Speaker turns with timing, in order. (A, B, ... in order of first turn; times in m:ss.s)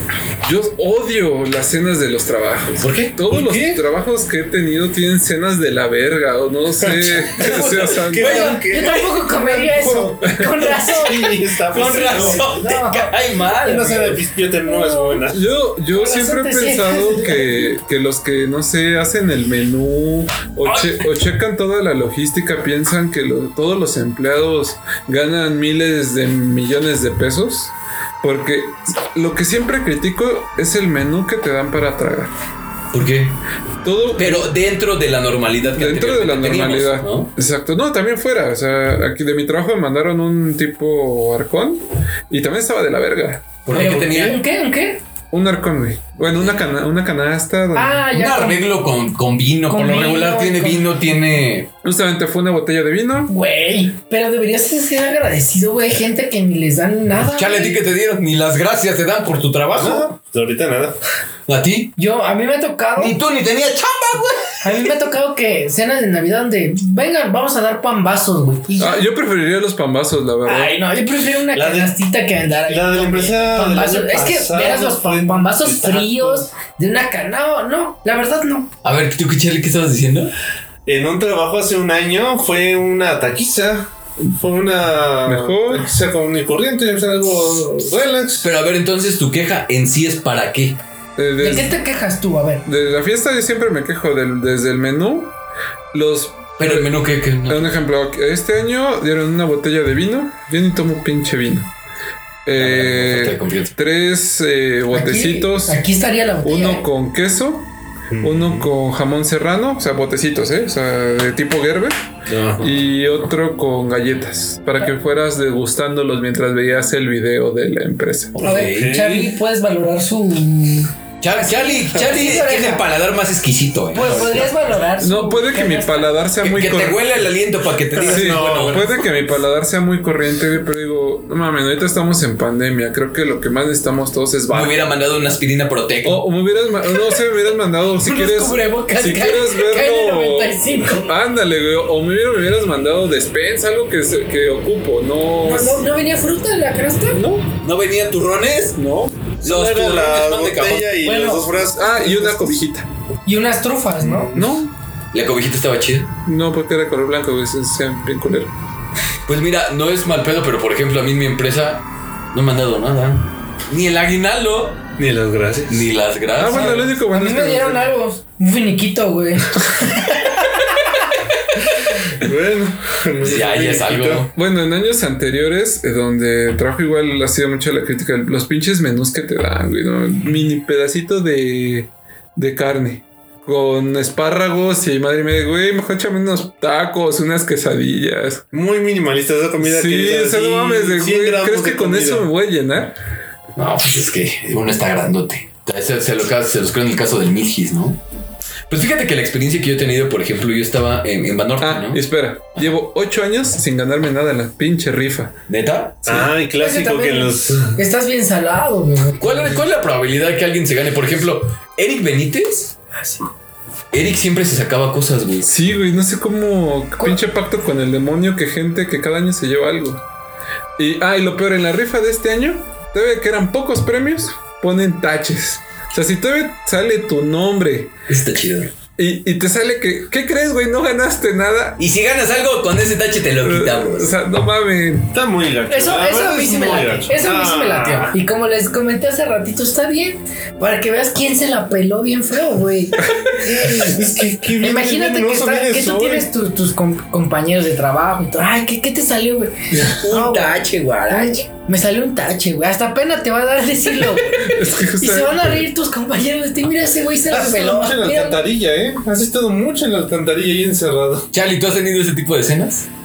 0:00.4-0:08.5 A
0:02.8-0:03.1 B
0:03.3-0:03.8 C
0:06.8-0:12.4 C
0:07.3-0:08.9 B
0:08.2-0:15.2 D
0:11.7-0:14.2 B
0:13.6-0:15.5 C
0:15.3-0:32.3 A
0:15.9-0:17.7 D
0:20.6-0:21.1 B
0:32.9-0:33.4 B
0:33.8-0:34.5 A
0:34.2-0:37.3 B
0:35.6-0:43.5 A
0:43.6-0:44.4 B
0:43.7-0:44.4 C
0:43.7-0:45.0 D
0:45.3-0:48.1 A
0:47.7-0:48.6 D
0:48.1-0:51.7 B
0:49.7-0:50.8 D
0:51.8-0:53.3 A
0:53.3-0:57.8 D
0:57.3-1:00.1 B
0:59.8-1:01.0 C
1:01.5-1:01.9 B
1:02.0-1:03.2 D
1:03.0-1:04.9 B
1:04.6-1:09.0 D
1:08.8-1:10.7 A
1:10.4-1:18.7 D
1:11.5-1:11.9 C
1:12.7-1:16.5 C
1:18.8-1:20.3 B
1:20.8-1:28.5 C
1:25.2-1:25.9 A
1:28.4-1:30.8 B
1:31.2-1:31.8 A
1:31.4-1:32.6 D
1:32.6-1:35.3 A
1:35.9-1:41.7 A
1:36.6-1:37.8 B
1:42.4-1:45.8 A
1:42.6-1:43.7 B
1:44.9-1:46.8 D
1:46.4-1:47.7 A
1:48.1-1:48.7 C
1:48.2-1:51.9 A
1:52.3-1:52.8 B
1:52.6-1:58.3 A
1:58.3-1:59.0 B
1:58.4-2:02.9 D
1:58.4-1:59.3 C
2:01.2-2:04.5 B
2:03.9-2:06.1 D
2:05.0-2:07.2 A
2:06.4-2:08.8 B
2:07.9-2:09.0 C
2:08.0-2:14.9 A
2:14.5-2:16.2 B
2:16.0-2:25.8 A
2:18.0-2:21.1 D
2:25.4-2:27.2 D
2:27.1-2:27.5 A
2:27.6-2:28.8 B
2:28.8-2:29.3 A
2:29.4-2:31.0 B
2:29.4-2:32.6 C
2:31.0-2:31.4 D
2:31.7-2:32.9 A
2:33.2-2:34.3 D
2:34.0-2:34.6 C
2:34.3-2:34.7 A
2:35.1-2:36.1 B
2:36.2-2:38.5 A
2:39.2-2:44.9 B
2:45.0-2:45.9 C
2:45.7-2:46.8 B
2:46.4-2:47.9 A
2:46.5-2:50.4 D
2:52.2-2:54.3 C
2:53.2-2:54.3 B
2:54.3-3:08.4 A
3:08.5-3:12.3 C
3:09.6-3:13.0 A
3:13.6-3:18.0 B
3:18.7-3:22.0 B
3:21.6-3:25.3 A
3:25.5-3:26.3 B
3:26.0-3:27.8 C
3:26.6-3:29.4 D
3:29.2-3:32.8 B
3:33.9-3:35.5 B
3:35.4-3:40.0 A
3:40.8-3:47.9 A
3:48.1-3:48.7 B
3:49.0-3:51.8 A
3:51.8-3:54.1 B
3:53.4-3:55.1 A
3:55.1-3:58.2 C
3:55.7-4:03.1 D
4:03.4-4:06.3 C
4:04.6-4:18.4 D
4:09.9-4:11.4 B
4:14.1-4:15.7 A
4:17.3-4:21.3 C
4:21.3-4:22.9 B